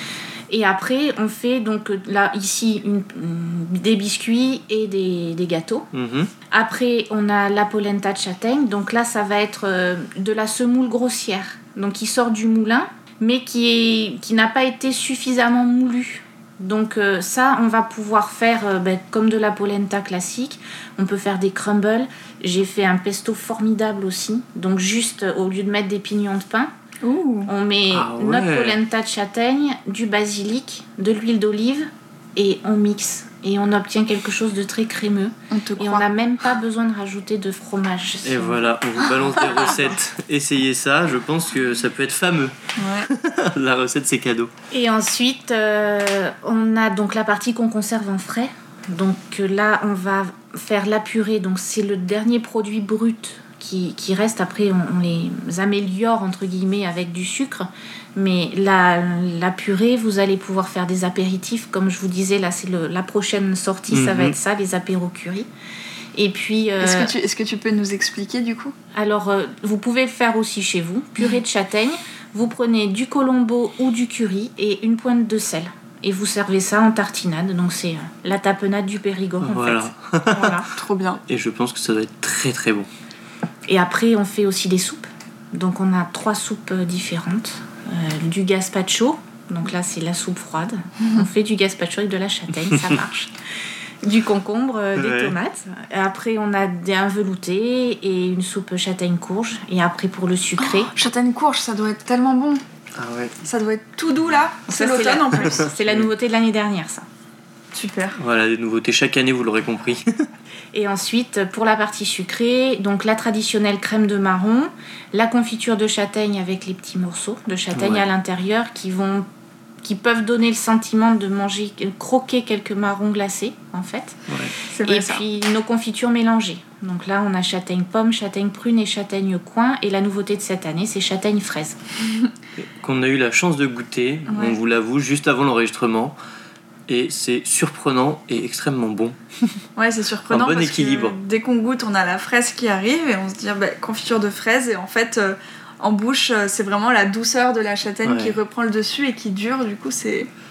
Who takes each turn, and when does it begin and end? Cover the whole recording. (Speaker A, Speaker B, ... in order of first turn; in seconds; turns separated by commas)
Speaker A: 0.5-5.9, Speaker B: 5.9-6.3, Speaker A: 6.5-26.7, Speaker C: 27.0-27.5, Speaker A: 27.5-38.6, Speaker B: 27.9-28.8, Speaker C: 35.5-36.0, Speaker B: 38.2-44.5, Speaker C: 39.2-39.7, Speaker C: 42.8-43.1, Speaker A: 44.7-65.5, Speaker B: 63.9-64.3, Speaker A: 66.1-67.1, Speaker C: 66.8-68.7, Speaker A: 68.9-80.7, Speaker B: 79.4-80.5, Speaker C: 80.6-81.2, Speaker B: 81.3-82.9, Speaker A: 83.7-93.3, Speaker A: 94.0-100.9, Speaker B: 95.0-95.3, Speaker C: 100.6-102.6, Speaker B: 103.0-103.3, Speaker C: 103.4-105.7, Speaker A: 104.7-107.0, Speaker C: 107.7-108.2, Speaker B: 108.2-110.2, Speaker A: 110.7-119.3, Speaker B: 117.7-118.0, Speaker A: 119.8-124.2, Speaker B: 124.3-124.5, Speaker C: 124.7-125.2, Speaker A: 124.8-131.8, Speaker B: 132.6-136.2, Speaker C: 134.3-134.6, Speaker B: 136.9-139.2, Speaker C: 139.8-150.3, Speaker B: 140.3-141.2, Speaker B: 148.0-148.3